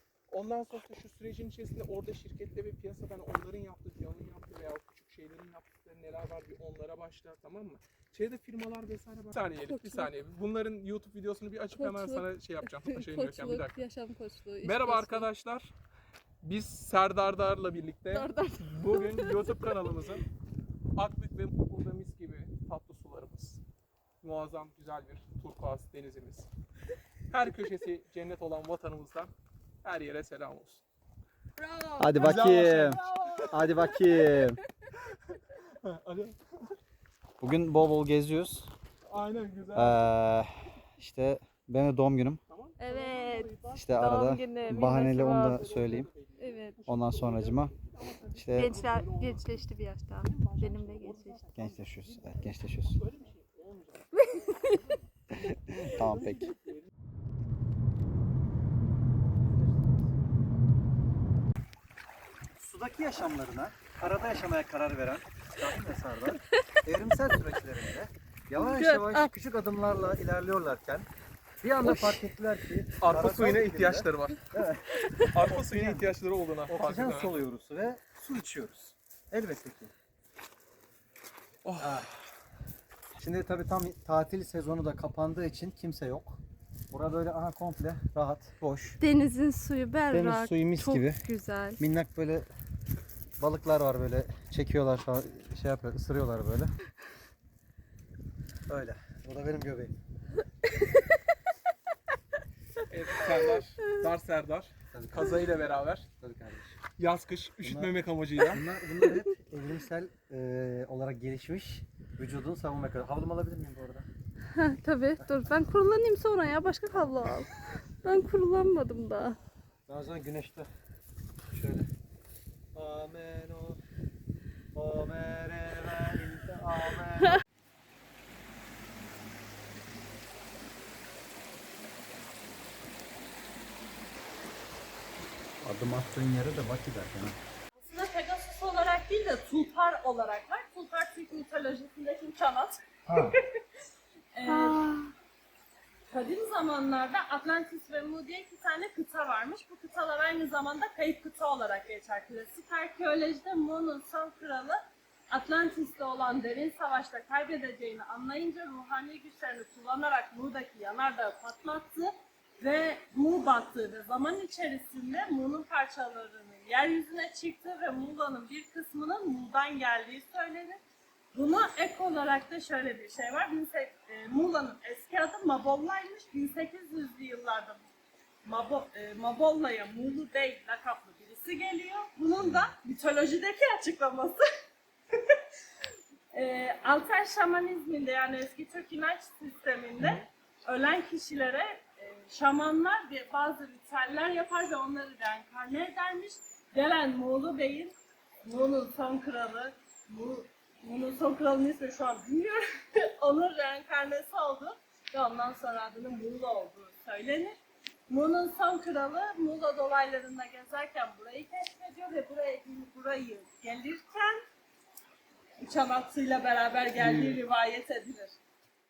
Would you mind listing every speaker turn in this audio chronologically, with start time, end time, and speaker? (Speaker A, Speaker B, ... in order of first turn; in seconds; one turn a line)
Speaker A: 0.3-13.8
Speaker B: 9.7-10.1
Speaker B: 11.8-15.3
Speaker A: 14.6-15.7
Speaker A: 16.4-20.2
Speaker B: 18.1-20.0
Speaker A: 20.9-23.6
Speaker A: 24.2-26.5
Speaker A: 27.3-29.3
Speaker A: 29.8-30.8
Speaker B: 31.6-34.5
Speaker C: 32.0-34.6
Speaker A: 32.2-33.6
Speaker A: 35.1-36.7
Speaker C: 37.4-38.7
Speaker A: 39.1-40.1
Speaker C: 39.7-42.4
Speaker A: 42.5-49.7
Speaker B: 42.8-45.7
Speaker C: 43.7-46.1
Speaker B: 46.4-46.8
Speaker C: 46.9-47.7
Speaker C: 48.3-48.8
Speaker B: 48.5-51.4
Speaker A: 50.2-55.1
Speaker C: 51.5-53.0
Speaker B: 54.1-54.8
Speaker C: 55.5-56.5
Speaker A: 55.7-56.8
Speaker C: 59.5-59.9
Speaker C: 62.5-71.1
Speaker B: 68.5-69.3
Speaker C: 71.6-76.1
Speaker A: 73.0-74.5
Speaker A: 75.3-77.4
Speaker C: 76.7-79.9
Speaker A: 81.6-82.1
Speaker C: 81.8-82.1
Speaker C: 83.2-86.4
Speaker C: 86.9-89.0
Speaker B: 89.0-91.8
Speaker C: 90.1-91.2
Speaker C: 91.8-92.5
Speaker C: 93.4-96.7
Speaker C: 98.7-99.9
Speaker A: 102.9-106.0
Speaker C: 104.9-106.8
Speaker A: 107.0-108.6
Speaker C: 107.6-114.1
Speaker B: 114.5-117.5
Speaker B: 118.0-119.4
Speaker C: 119.9-120.7
Speaker C: 121.4-121.9
Speaker C: 122.7-123.8
Speaker C: 124.7-127.4
Speaker C: 135.6-137.4
Speaker D: 137.8-143.6
Speaker C: 143.1-143.4
Speaker D: 144.3-144.8
Speaker B: 144.4-145.1
Speaker D: 146.1-170.8
Speaker D: 171.3-177.8
Speaker D: 178.4-184.4
Speaker C: 182.4-182.7
Speaker D: 186.3-207.6
Speaker D: 208.1-214.4
Speaker D: 215.6-218.4
Speaker C: 216.9-217.4